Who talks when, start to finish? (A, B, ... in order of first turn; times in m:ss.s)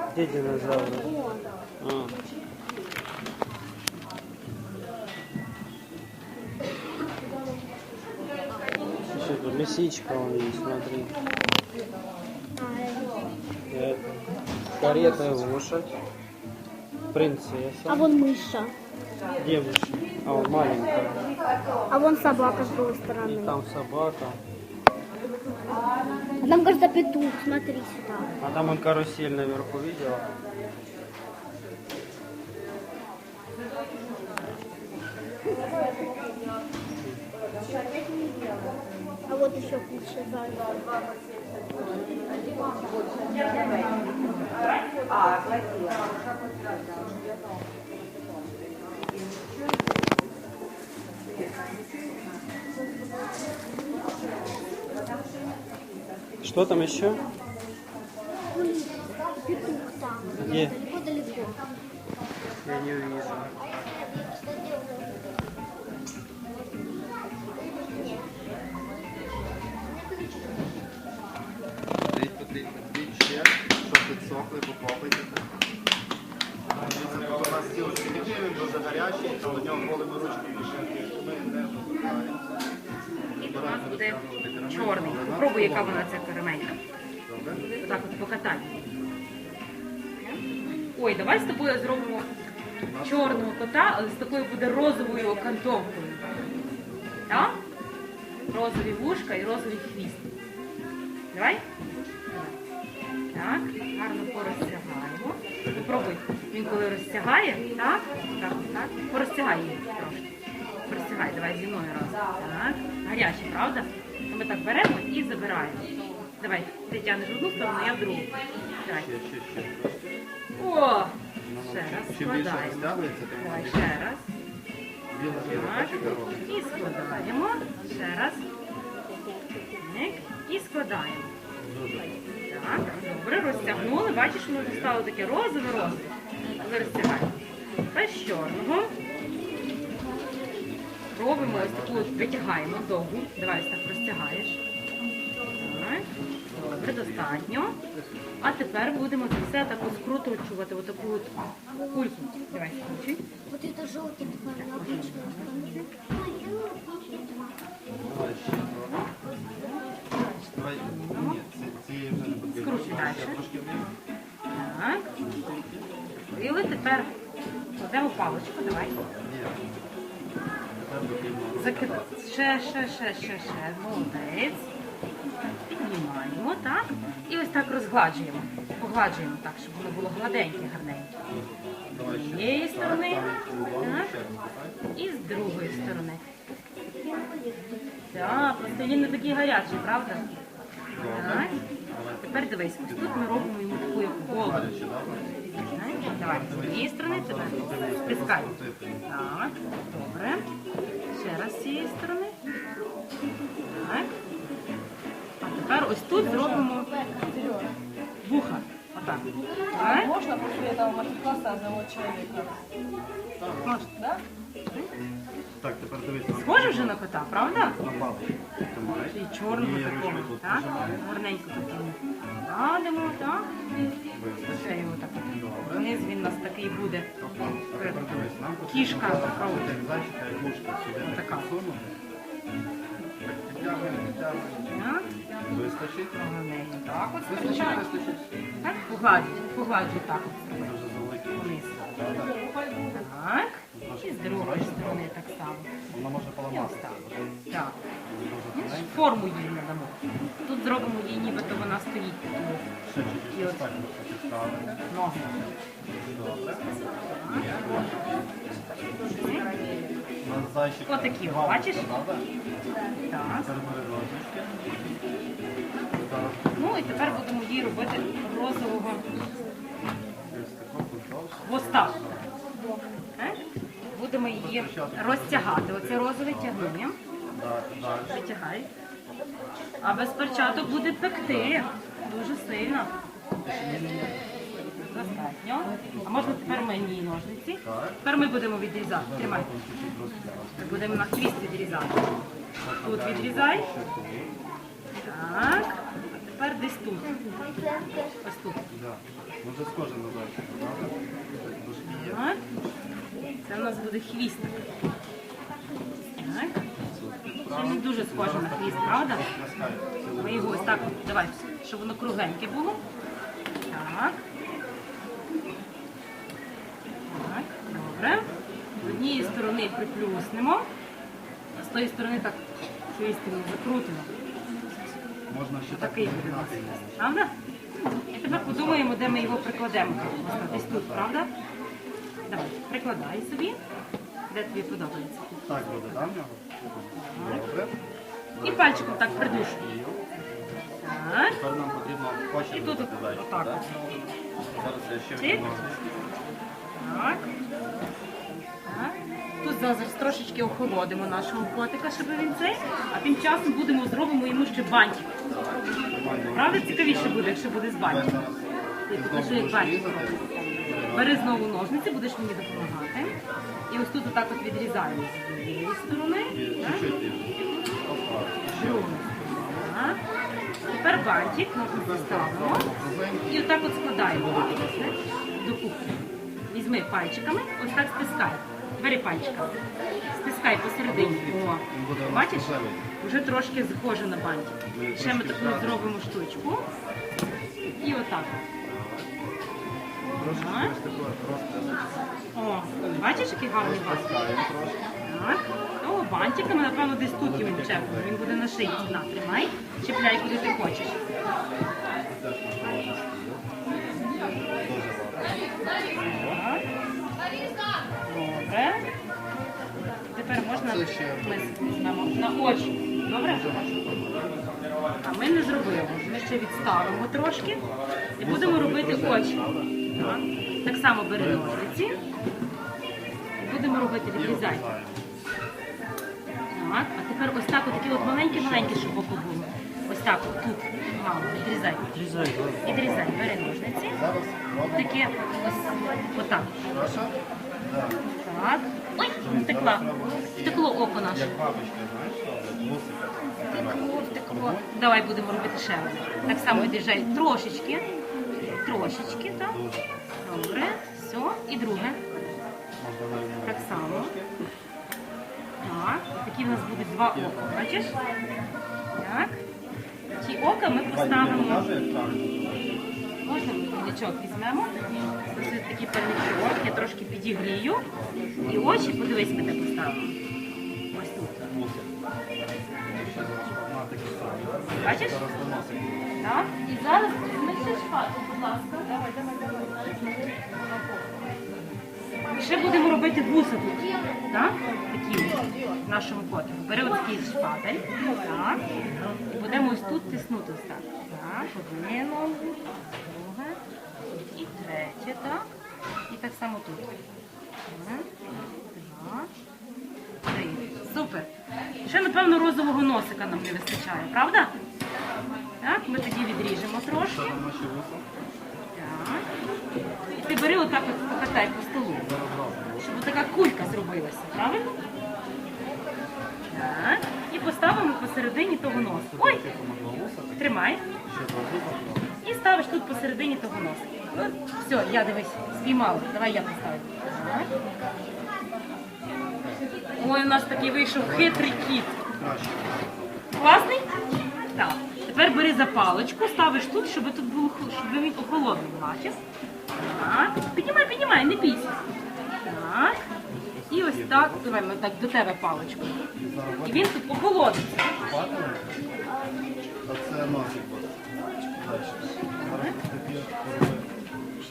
0:00.1-0:01.1 A
0:00.7-0:01.6 B
0:01.8-0:02.2 A
0:08.5-0:09.1 B
0:09.1-0:11.2 A
0:12.6-0:13.3 B
0:13.7-0:14.1 A
0:14.7-0:15.9 A
0:17.1-0:18.1 A
0:17.9-0:18.7 B
0:19.4-0:21.2 A
0:21.9-0:23.6 B
0:22.4-0:22.9 C
0:23.2-0:24.4 A
0:26.4-0:28.3 B
0:28.4-0:30.2 A
0:39.3-0:40.8 B
0:43.3-0:46.1 D
0:56.4-0:57.2 A
0:58.5-1:01.6 B
1:00.4-1:00.8 A
1:02.6-1:03.5 A
1:03.6-1:05.2 B
1:07.7-1:08.2 B
1:09.9-1:10.6 B
1:12.1-1:15.5 E
1:16.8-1:22.4 E
1:23.4-1:26.2 E
1:23.4-1:26.8 D
1:27.3-1:27.7 E
1:27.8-1:28.9 D
1:30.2-1:30.4 D
1:30.9-1:32.3 D
1:32.8-1:33.5 E
1:33.0-1:36.3 D
1:37.3-1:37.6 D
1:38.5-1:40.3 D
1:41.3-1:41.6 D
1:42.3-1:42.6 D
1:43.3-1:50.4 D
1:45.6-1:46.2 E
1:50.9-1:59.1 D
1:58.9-2:00.2 E
2:00.6-2:04.3 D
2:01.4-2:04.1 E
2:05.1-2:06.5 E
2:05.4-2:08.4 D
2:09.8-2:11.3 D
2:11.6-2:12.2 E
2:12.5-2:17.3 D
2:13.4-2:15.0 E
2:16.6-2:17.0 E
2:17.9-2:18.9 D
2:21.1-2:24.6 D
2:21.4-2:22.5 E
2:25.6-2:27.8 D
2:26.4-2:28.5 E
2:28.4-2:31.4 D
2:31.8-2:32.9 B
2:31.9-2:33.2 D
2:33.5-2:37.7 B
2:34.5-2:35.9 D
2:38.0-2:39.2 E
2:39.4-2:39.8 D
2:40.5-2:43.9 E
2:40.8-2:41.4 D
2:42.5-2:43.4 D
2:44.5-2:45.1 D
2:45.1-2:46.7 E
2:46.2-2:47.1 D
2:47.8-2:49.0 D
2:48.1-2:49.7 E
2:50.8-2:52.1 E
2:51.6-2:54.7 D
2:55.7-3:01.1 D
3:01.3-3:04.8 E
3:02.1-3:04.1 D
3:05.0-3:06.2 D
3:07.2-3:07.7 B
3:08.1-3:10.4 D
3:08.1-3:08.7 E
3:10.9-3:13.6 E
3:11.1-3:11.6 D
3:12.2-3:14.7 D
3:14.4-3:15.3 E
3:15.6-3:20.5 D
3:16.0-3:19.0 E
3:21.1-3:22.4 D
3:23.6-3:24.1 D
3:25.4-3:26.9 D
3:27.0-3:27.7 C
3:28.2-3:30.1 D
3:29.7-3:32.6 C
3:33.2-3:33.9 E
3:33.6-3:33.9 D
3:35.6-3:37.0 E
3:36.3-3:37.8 D
3:37.8-3:41.0 E
3:39.0-3:43.5 D
3:44.1-3:45.9 E
3:44.5-3:47.1 D
3:47.2-3:51.9 E
3:47.8-3:49.8 D
3:51.0-3:51.5 D
3:53.2-3:54.8 E
3:54.7-3:55.1 D
3:55.4-3:56.2 E
3:56.2-3:57.8 D
3:57.3-3:58.3 E
3:58.6-4:01.8 D
4:00.6-4:02.4 E
4:02.4-4:02.7 C
4:02.9-4:05.7 D
4:03.7-4:05.1 E
4:05.9-4:07.3 E
4:06.5-4:07.8 D
4:08.1-4:09.3 E
4:08.5-4:12.7 D
4:12.8-4:18.6 E
4:13.3-4:13.7 D
4:14.9-4:15.4 D
4:17.0-4:17.7 D
4:18.8-4:20.0 C
4:19.1-4:19.5 D
4:20.2-4:22.3 E
4:20.9-4:21.9 D
4:23.1-4:23.5 D
4:23.4-4:24.8 E
4:25.9-4:28.0 E
4:26.6-4:29.1 D
4:30.3-4:32.3 E
4:31.4-4:32.0 D
4:33.2-4:37.0 D
4:34.3-4:38.2 E
4:38.0-4:38.7 D
4:39.8-4:42.9 D
4:41.2-4:41.6 E
4:43.4-4:44.5 E
4:44.8-4:49.5 D
4:45.8-4:46.7 E
4:47.6-4:48.0 E
4:48.9-4:51.3 E
4:50.6-4:52.2 D
4:52.6-4:54.4 E
4:52.8-4:53.7 D
4:55.0-4:58.6 D
4:58.7-5:02.3 E
5:01.8-5:02.4 D
5:03.4-5:04.7 D
5:06.2-5:06.6 D
5:06.8-5:10.9 E
5:07.4-5:09.4 D
5:10.2-5:12.8 D
5:13.7-5:14.2 D
5:17.1-5:18.3 D
5:18.0-5:19.4 E
5:18.8-5:20.7 D
5:21.6-5:24.1 D
5:25.3-5:27.0 E
5:25.7-5:27.3 D
5:28.1-5:31.3 D
5:28.2-5:31.2 E
5:32.3-5:33.6 D
5:34.3-5:36.1 D
5:35.5-5:37.8 E
5:37.0-5:37.4 D
5:38.4-5:40.0 E
5:38.4-5:39.7 D
5:40.8-5:41.4 D
5:41.3-5:43.6 E
5:42.5-5:44.2 D
5:44.5-5:45.9 E
5:45.2-5:46.0 D
5:46.7-5:47.3 D
5:48.6-5:55.1 D
5:55.3-6:01.4 E
5:56.3-5:58.2 D
5:58.9-6:06.9 D
6:06.3-6:09.6 E
6:07.4-6:07.7 D
6:08.5-6:10.0 D
6:10.6-6:12.7 D
6:11.7-6:15.2 E
6:13.3-6:19.6 D
6:20.1-6:26.7 D
6:20.9-6:22.9 E
6:24.7-6:26.2 E
6:27.8-6:28.4 D
6:28.6-6:29.1 E
6:30.2-6:32.1 E
6:30.2-6:30.7 D
6:32.3-6:34.2 D
6:32.8-6:34.9 E
6:35.0-6:41.0 D
6:37.1-6:38.2 E
6:42.0-6:43.4 E
6:44.6-6:46.4 E
6:45.9-6:46.6 D
6:48.0-6:48.9 D
6:50.1-6:53.7 D
6:50.5-6:51.6 E
6:52.5-6:54.8 E
6:55.0-6:57.6 D
6:56.5-7:00.3 E
6:58.2-7:02.0 D
7:01.1-7:02.1 E
7:03.4-7:04.7 D
7:04.0-7:05.0 E
7:06.5-7:11.9 D
7:07.6-7:09.1 E
7:11.9-7:15.3 E
7:12.6-7:14.0 D
7:14.7-7:16.7 D
7:16.6-7:18.0 E
7:18.2-7:19.9 D
7:19.2-7:24.8 E
7:20.4-7:21.4 D
7:23.5-7:29.6 D
7:26.3-7:26.8 E
7:29.4-7:30.0 E
7:30.2-7:32.0 D
7:32.8-7:34.4 E
7:33.4-7:34.1 D
7:35.6-7:38.0 D
7:36.4-7:37.6 E
7:39.0-7:39.4 D
7:40.2-7:41.7 D
7:40.9-7:42.9 E
7:43.2-7:47.9 D
7:45.0-7:46.9 E
7:47.9-7:49.6 E
7:48.4-7:50.2 D
7:50.9-7:51.5 D
7:51.5-7:51.9 E
7:52.9-7:56.2 E
7:54.8-7:55.2 D
7:56.2-7:59.9 D
8:02.3-8:08.6 D
8:09.3-8:13.6 D
8:14.4-8:15.5 D
8:16.1-8:16.9 D
8:17.7-8:19.3 D
8:20.3-8:21.3 D
8:21.8-8:24.5 D
8:25.6-8:27.4 D
8:27.0-8:28.1 E
8:28.7-8:29.3 D
8:30.2-8:32.1 D
8:32.0-8:32.9 E
8:32.8-8:34.8 D
8:36.5-8:39.4 D
8:38.7-8:40.5 E
8:40.4-8:40.8 D
8:41.0-8:42.1 E
8:42.2-8:47.5 D
8:50.0-8:52.0 D
8:50.5-8:53.2 E
8:53.4-8:54.0 D
8:54.5-8:59.2 D
8:59.8-9:01.9 D
9:02.4-9:03.1 D
9:03.3-9:04.5 E
9:03.7-9:06.0 D
9:06.2-9:07.0 E
9:06.6-9:08.0 D
9:07.8-9:08.8 E
9:09.8-9:13.9 E
9:12.4-9:12.8 D